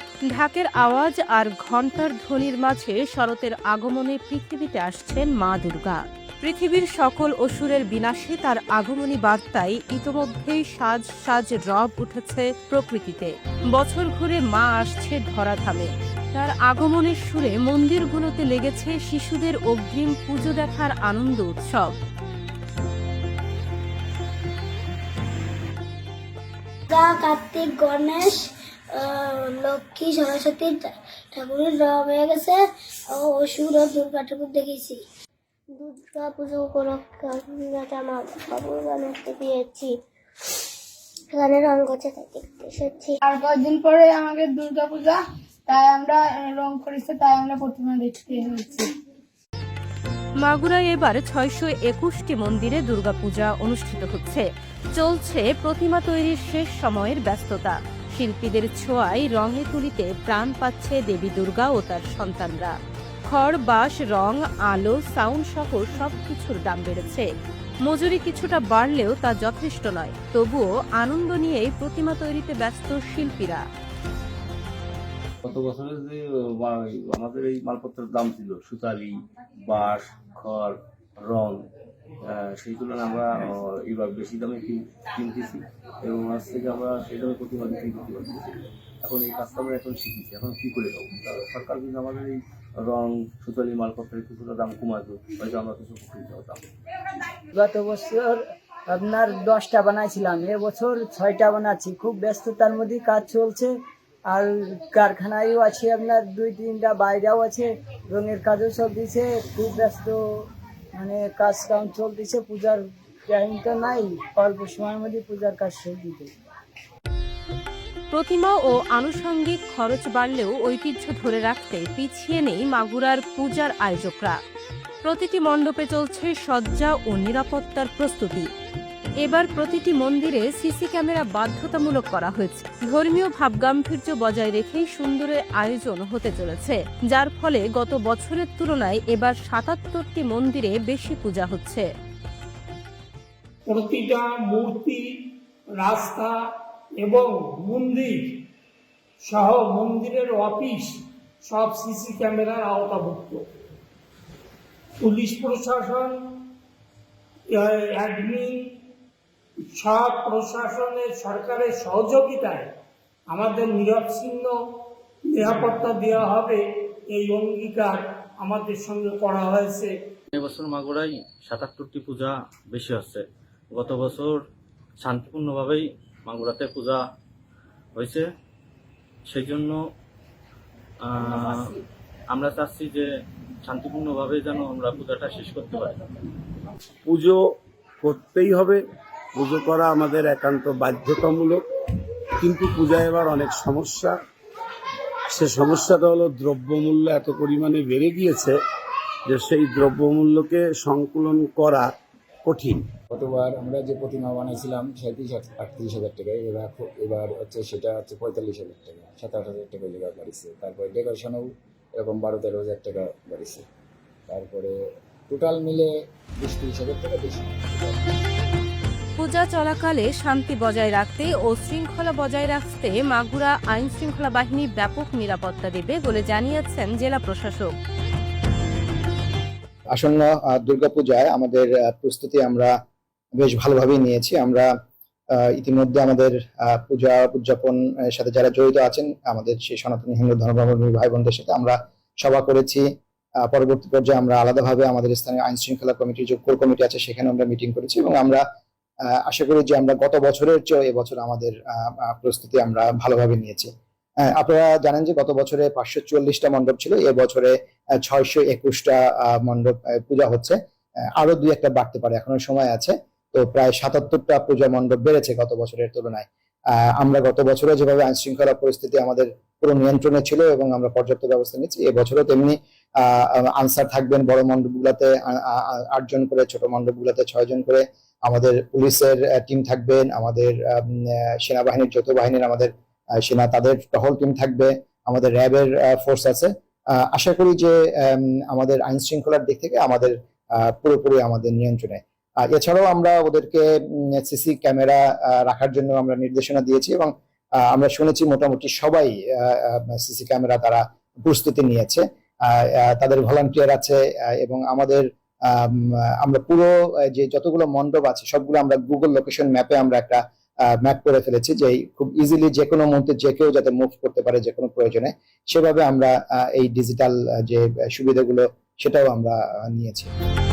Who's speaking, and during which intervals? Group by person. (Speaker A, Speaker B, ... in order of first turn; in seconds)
Speaker A: 0.3-22.0, 50.4-62.8, 63.3-67.3, 67.8-73.7, 118.1-124.4, 125.0-128.5, 129.2-141.9, 219.2-227.8
Speaker B: 26.9-35.0, 35.8-40.0, 41.3-43.2
Speaker C: 43.2-48.9
Speaker D: 75.4-81.6, 82.2-96.6
Speaker E: 97.5-103.7, 104.3-110.2, 111.0-116.3
Speaker F: 143.7-145.1, 145.8-146.4, 147.0-148.4, 149.2-150.9, 151.4-153.4, 155.0-156.2, 157.5-158.6, 159.8-162.7, 163.3-164.5, 165.3-169.9
Speaker G: 170.3-174.4, 175.0-177.1, 177.9-178.3, 179.3-179.8, 181.0-181.7, 182.3-183.1, 183.7-186.0
Speaker H: 187.1-187.4, 188.0-188.8, 189.4-191.6, 192.4-194.2, 195.3-198.6, 199.3-201.9, 202.5-202.8
Speaker I: 203.1-213.7, 214.3-214.7, 215.3-218.0
Speaker J: 229.9-232.7, 233.4-234.7, 235.6-242.9, 243.5-248.4, 249.3-253.7, 254.2-260.6, 261.2-266.3, 267.0-282.7, 283.2-286.5, 287.1-293.7, 294.2-297.1, 297.7-305.1, 305.6-310.2, 310.8-320.1